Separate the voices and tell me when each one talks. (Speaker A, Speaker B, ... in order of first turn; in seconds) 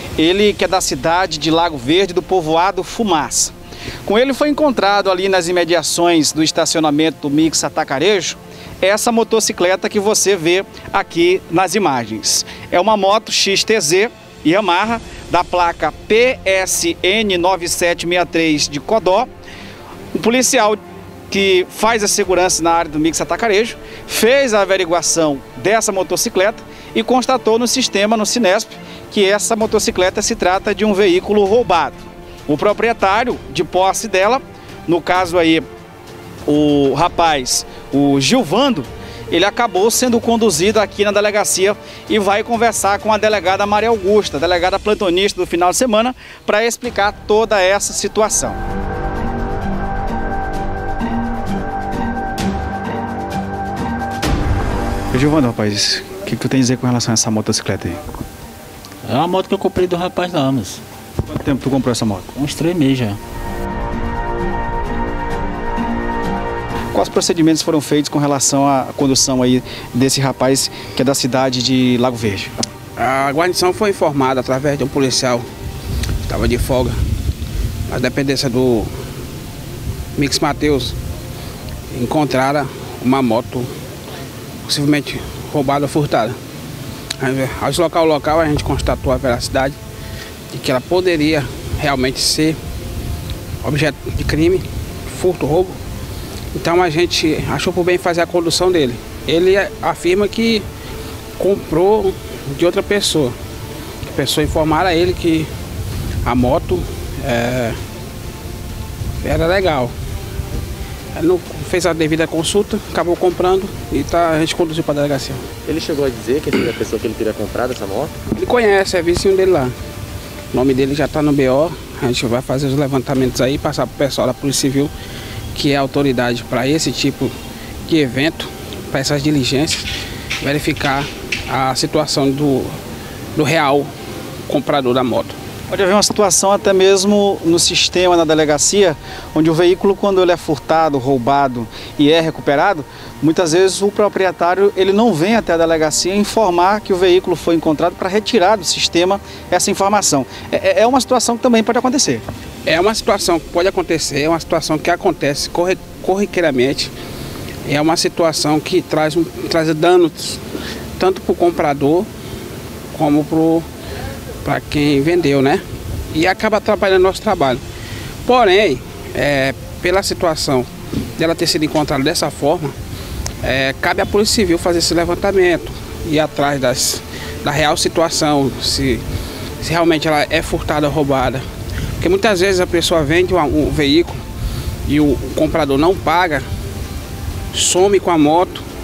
Speaker A: 0.2-3.5, 4.0-19.3, 20.1-20.8, 21.3-35.6, 36.5-48.6, 55.1-58.0, 61.3-62.3, 66.9-72.5, 135.7-152.2
Speaker B: 59.1-60.8, 62.3-63.2
Speaker C: 73.0-75.5, 76.3-77.0, 77.9-78.9, 80.2-81.0, 81.9-83.7, 84.7-86.3, 87.2-89.8, 90.5-92.6, 93.6-95.8, 96.5-100.6, 101.4-103.3, 104.1-105.5, 106.2-107.8, 109.2-109.9, 111.2-115.4, 118.3-119.7, 120.5-124.9, 125.5-127.3, 127.9-129.9, 130.4-132.7, 133.3-133.9, 134.5-135.4, 152.7-156.9, 157.7-160.4, 161.0-162.1, 162.9-163.7, 164.4-167.6, 168.2-172.7, 173.4-179.0, 179.6-181.4, 182.0-184.2, 184.9-186.4, 187.5-188.6
Speaker D: 115.7-118.1